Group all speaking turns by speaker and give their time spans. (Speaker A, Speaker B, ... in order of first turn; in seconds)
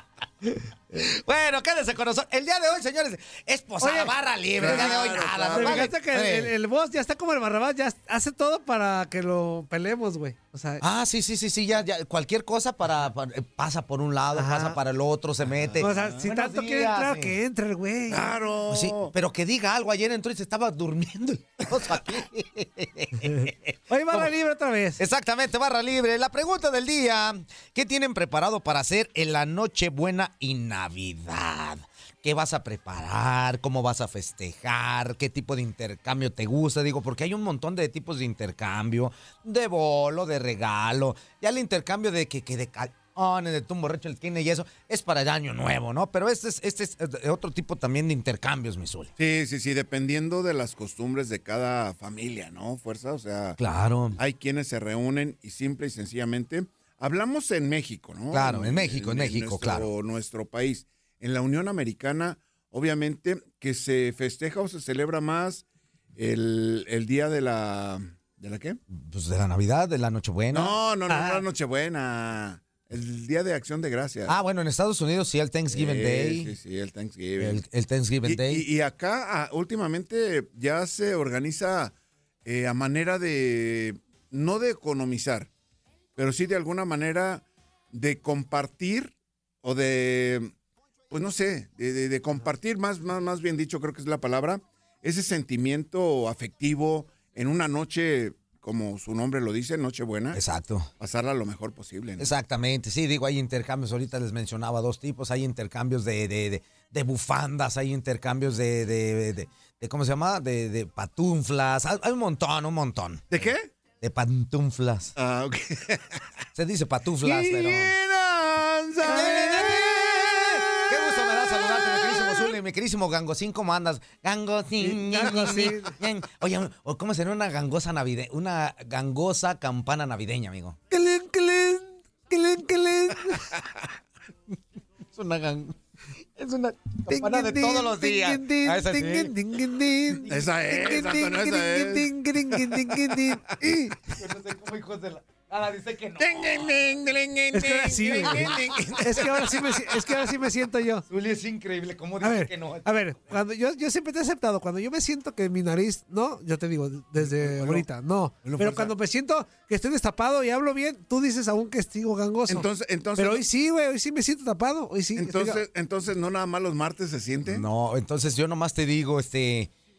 Speaker A: 0.9-6.5, 10.8-17.4, 18.7-24.3, 25.0-49.1, 53.6-54.2, 58.3-59.9, 68.9-70.8, 74.3-76.5, 77.4-78.7, 100.3-100.9, 102.2-115.2, 116.5-117.9, 119.0-130.8, 135.1-135.8, 136.3-139.3, 140.1-140.4, 144.0-146.9, 148.3-148.5, 151.1-152.9, 167.5-169.7
Speaker B: 3.8-10.8, 14.3-14.8, 15.8-18.4, 23.2-25.0, 71.1-71.4, 124.8-126.0, 130.9-133.4, 137.1-143.9, 147.5-151.1, 152.2-165.6
Speaker C: 4.6-6.0, 15.6-16.3, 18.1-19.1, 49.2-53.6, 54.2-65.6, 66.2-68.8, 70.5-74.3, 75.7-77.6, 78.2-81.9, 82.4-85.5, 86.2-90.5, 91.1-100.4, 101.0-102.3, 113.3-113.7, 115.2-116.2, 117.2-120.9, 121.9-122.4, 140.3-142.1, 146.2-149.6, 157.2-157.8, 158.4-158.9, 162.5-163.4, 165.2-167.6